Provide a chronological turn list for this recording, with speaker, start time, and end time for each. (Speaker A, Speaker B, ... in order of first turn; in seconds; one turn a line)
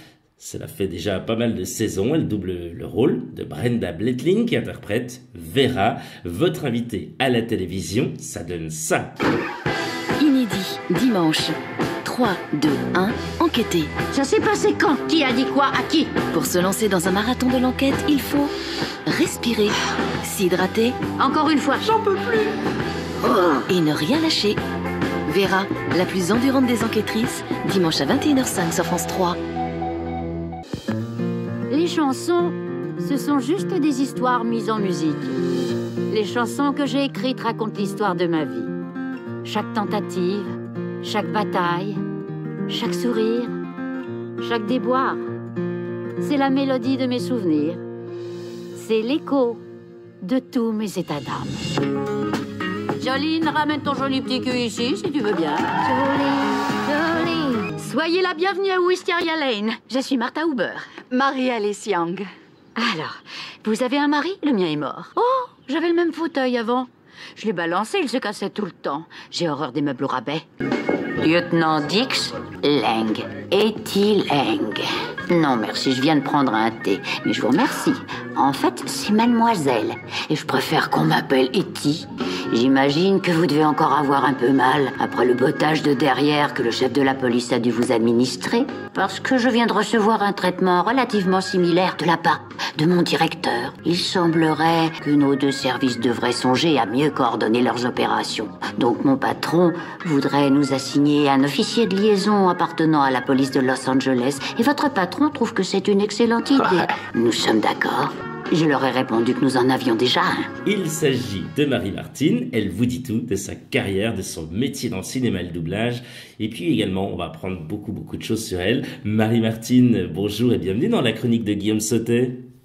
Speaker A: 0.4-9.1
Speaker B: 10.2-13.9
Speaker C: 14.1-16.1
Speaker B: 16.3-18.5
Speaker B: 19.1-21.0
Speaker C: 21.2-22.5
Speaker C: 23.2-23.6
Speaker B: 23.7-24.6
Speaker B: 25.3-29.4
Speaker C: 31.7-35.4
Speaker C: 36.1-38.7
Speaker C: 39.4-42.0
Speaker C: 42.7-43.6
Speaker C: 44.4-45.2
Speaker C: 46.2-47.8
Speaker C: 48.8-49.6
Speaker C: 50.2-51.6
Speaker C: 53.0-70.4
Speaker C: 71.2-110.5
Speaker A: 110.7-122.4